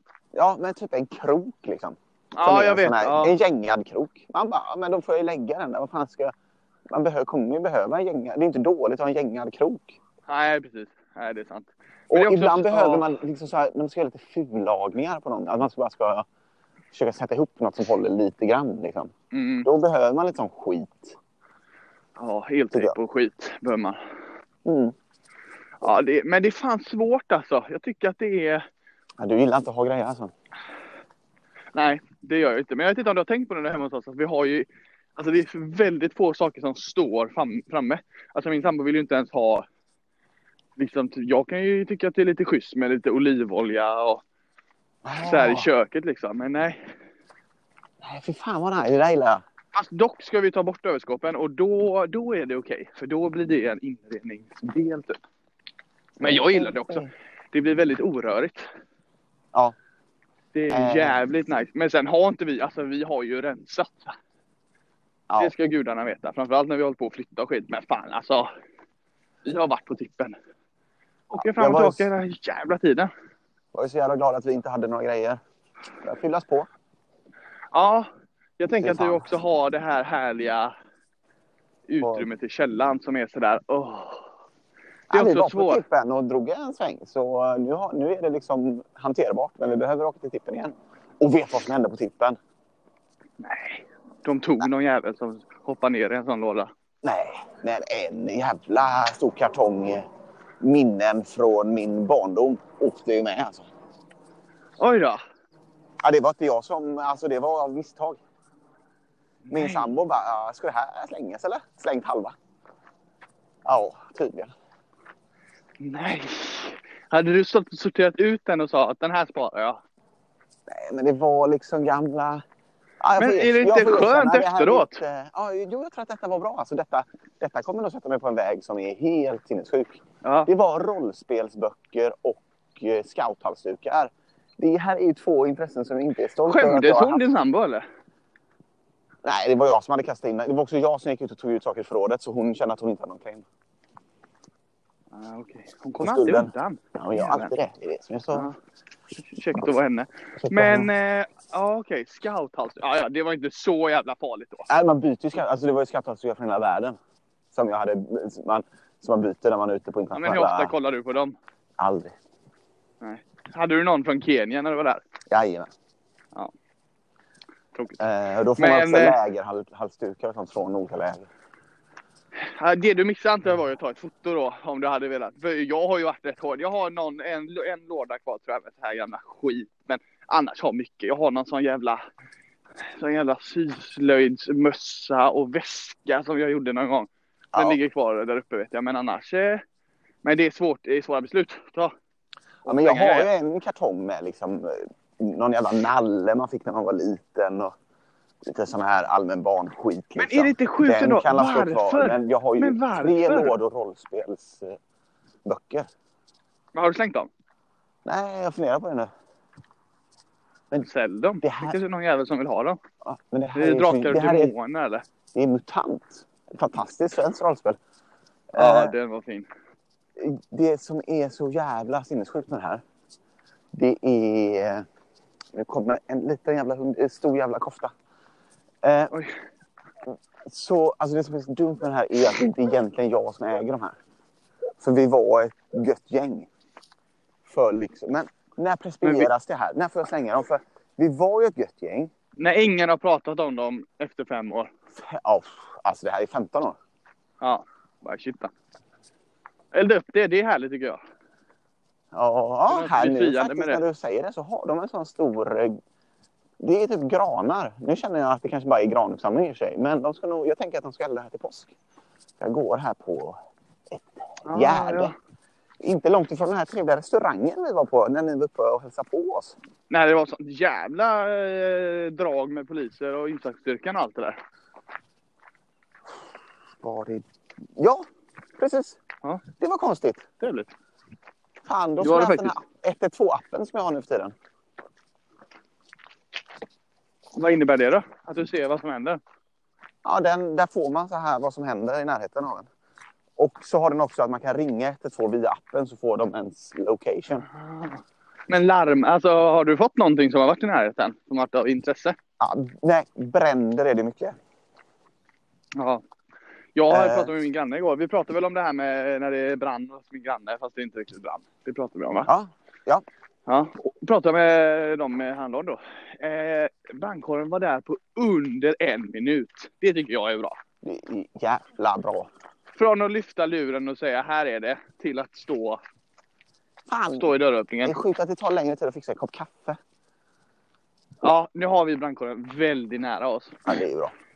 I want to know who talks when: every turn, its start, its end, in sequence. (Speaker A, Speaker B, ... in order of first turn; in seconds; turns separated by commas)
Speaker A: 0.3-6.3, Speaker B: 2.3-3.4, Speaker A: 6.9-10.0, Speaker B: 10.3-13.2, Speaker A: 12.1-16.2, Speaker A: 16.9-19.1, Speaker B: 19.3-19.7, Speaker A: 19.6-21.1, Speaker B: 22.2-24.0, Speaker A: 24.6-24.9, Speaker B: 25.8-28.6, Speaker A: 29.2-30.3, Speaker B: 31.7-39.6, Speaker B: 40.8-44.2, Speaker A: 45.0-45.7, Speaker B: 45.2-46.9, Speaker A: 48.0-49.4, Speaker B: 49.7-55.2, Speaker B: 56.2-58.6, Speaker A: 56.2-57.1, Speaker B: 60.5-64.1, Speaker A: 60.7-61.1, Speaker B: 65.4-68.5, Speaker B: 69.5-70.3, Speaker B: 71.3-73.1, Speaker A: 71.4-72.1, Speaker A: 73.7-75.4, Speaker A: 76.0-76.7, Speaker B: 77.7-78.1, Speaker B: 78.6-80.7, Speaker A: 78.8-79.3, Speaker B: 81.9-84.3, Speaker A: 82.0-82.3, Speaker A: 85.1-92.4, Speaker B: 85.1-85.8, Speaker B: 93.4-96.7, Speaker A: 97.0-100.0, Speaker A: 100.6-103.7, Speaker B: 104.8-105.2, Speaker A: 106.0-108.2, Speaker B: 109.5-109.9, Speaker A: 109.5-112.3, Speaker A: 113.6-114.5, Speaker B: 115.8-119.8, Speaker A: 120.7-122.4, Speaker A: 123.0-137.3, Speaker B: 123.2-125.0, Speaker B: 130.2-130.5, Speaker B: 136.4-137.8, Speaker A: 139.2-143.4, Speaker B: 145.1-147.5, Speaker A: 146.0-148.5, Speaker B: 149.2-154.7, Speaker A: 150.4-150.9, Speaker A: 154.7-157.0, Speaker A: 157.5-160.7, Speaker B: 160.1-161.3, Speaker A: 161.8-162.1, Speaker B: 163.0-165.0, Speaker A: 165.3-165.7, Speaker B: 167.7-168.0, Speaker A: 168.0-171.3, Speaker B: 168.6-169.2, Speaker B: 172.4-182.0, Speaker B: 182.9-189.6, Speaker B: 190.2-191.9, Speaker A: 192.6-197.7, Speaker B: 192.7-193.3, Speaker A: 198.4-204.8, Speaker B: 200.2-203.5, Speaker A: 205.4-205.9, Speaker B: 206.7-207.3, Speaker A: 208.0-209.1, Speaker B: 210.8-212.8, Speaker A: 211.4-211.8, Speaker A: 213.0-214.5, Speaker B: 213.5-215.0, Speaker A: 215.3-217.8, Speaker A: 218.5-218.9, Speaker B: 218.6-219.5, Speaker A: 220.2-222.8, Speaker A: 223.7-224.8, Speaker A: 225.5-227.9, Speaker A: 228.8-229.2, Speaker A: 230.1-233.9, Speaker A: 234.8-236.5, Speaker A: 237.4-242.1, Speaker B: 239.0-239.3, Speaker B: 242.4-244.7, Speaker A: 244.9-246.8, Speaker B: 247.4-248.5, Speaker B: 249.7-251.0, Speaker A: 252.1-255.8, Speaker B: 252.7-253.8, Speaker A: 256.6-261.7, Speaker A: 262.4-263.4, Speaker A: 263.9-265.1, Speaker B: 264.4-265.1, Speaker A: 265.8-269.6, Speaker B: 269.9-274.4, Speaker A: 276.8-277.2, Speaker A: 277.8-278.1, Speaker A: 278.6-279.0, Speaker A: 279.6-280.2, Speaker B: 280.4-280.7, Speaker A: 281.6-284.3, Speaker B: 282.0-282.6, Speaker B: 287.4-289.2, Speaker A: 290.0-292.7, Speaker A: 293.4-297.4, Speaker B: 297.5-302.2, Speaker A: 302.4-304.3, Speaker B: 305.8-306.0, Speaker B: 306.7-312.3, Speaker A: 306.9-307.3, Speaker A: 312.3-313.0, Speaker B: 313.5-320.6, Speaker A: 320.8-322.3, Speaker B: 322.8-325.8, Speaker A: 326.9-327.3, Speaker B: 327.1-328.0, Speaker A: 327.8-329.8, Speaker B: 331.2-333.7, Speaker A: 333.6-334.1